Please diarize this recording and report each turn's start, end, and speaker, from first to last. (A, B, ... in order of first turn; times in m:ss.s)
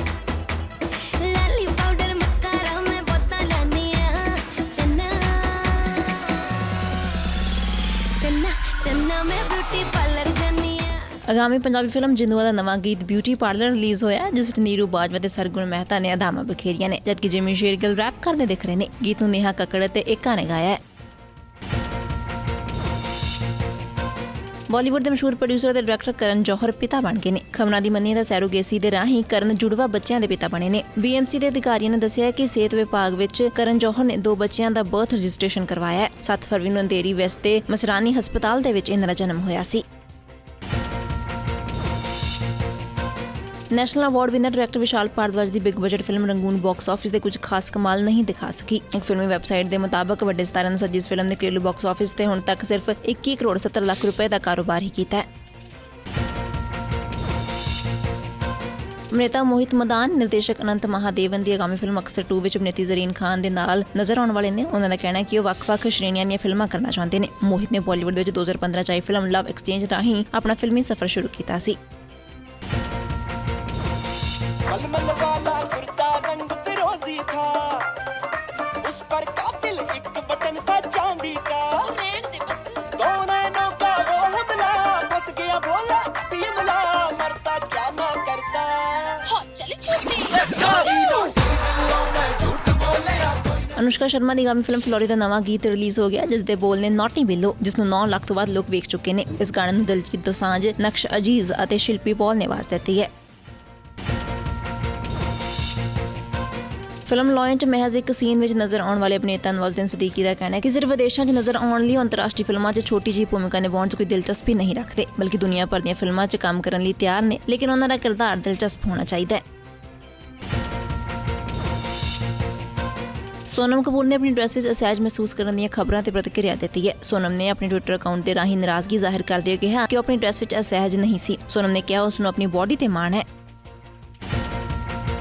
0:00.9-0:07.4 A
0:08.1-0:11.1 A
0:11.3-0:20.8 B
0:24.7-0:39.8 B
0:43.7-0:55.2 B
0:59.1-1:11.8 B
1:14.6-1:18.0 C
1:18.8-1:22.1 C
1:22.0-1:22.9 A
1:22.9-1:29.4 C
1:29.4-1:30.7 A
1:30.7-1:33.3 C
1:33.7-1:43.1 B
1:47.1-1:59.4 B
2:03.5-2:13.2 B